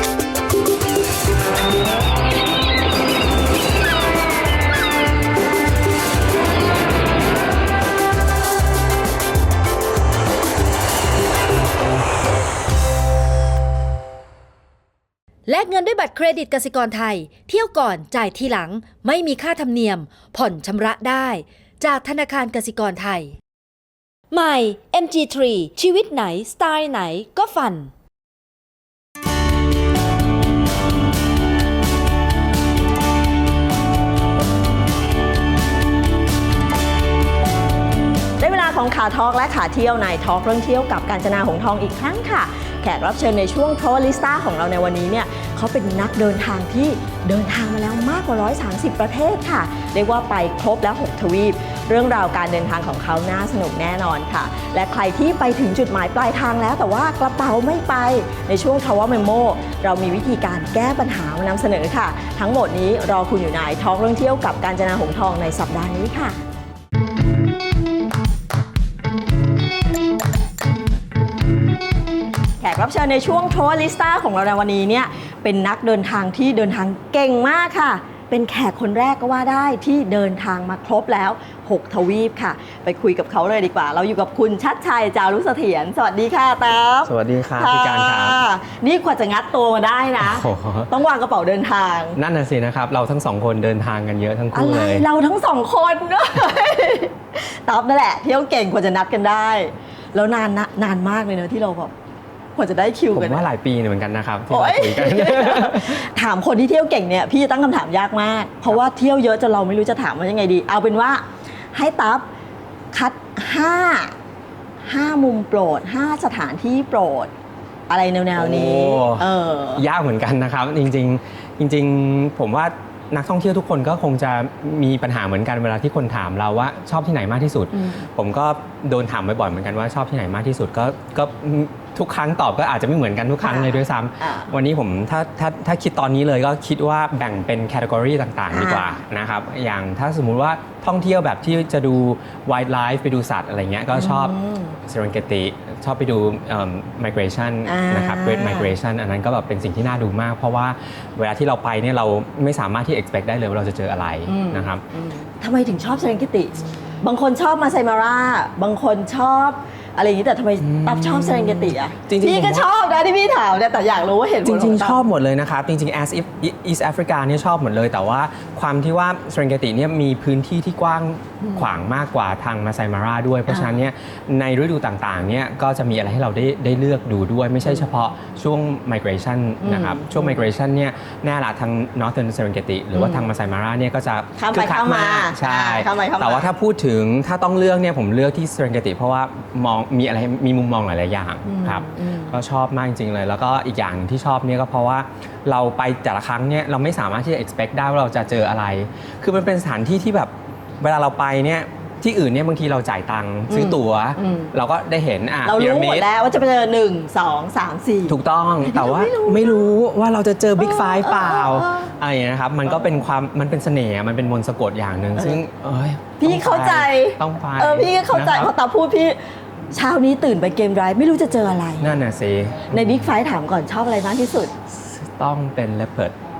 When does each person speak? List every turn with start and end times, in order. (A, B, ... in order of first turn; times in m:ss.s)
0:15.5-0:23.4 A
0:24.3-0:27.9 A
0:38.4-1:06.4 B
1:12.6-1:32.2 B
1:27.0-1:28.4 C
1:30.2-1:30.9 C
1:32.2-1:35.0 C
1:34.5-1:41.9 B
1:42.6-1:43.4 B
1:43.1-1:46.0 C
1:44.5-1:52.2 B
1:52.9-1:54.2 B
1:54.8-1:57.3 B
1:57.9-1:59.8 B
1:58.3-2:34.8 C
2:07.7-2:08.0 B
2:13.4-2:14.5 B
2:18.5-2:19.0 B
2:23.9-2:24.8 B
2:27.6-2:28.7 B
2:34.3-2:45.0 B
2:40.6-2:42.7 C
2:44.4-3:26.1 C
2:51.4-2:51.7 B
2:53.5-2:53.8 B
2:59.6-3:00.5 B
3:02.9-3:03.3 B
3:04.4-3:06.5 B
3:11.4-3:12.4 B
3:23.5-3:24.5 B
3:25.4-3:29.7 B
3:28.1-3:38.5 C
3:30.6-3:31.9 B
3:36.2-3:39.2 B
3:39.7-3:41.9 B
3:41.8-3:43.1 C
3:42.7-3:44.5 B
3:44.7-3:46.1 C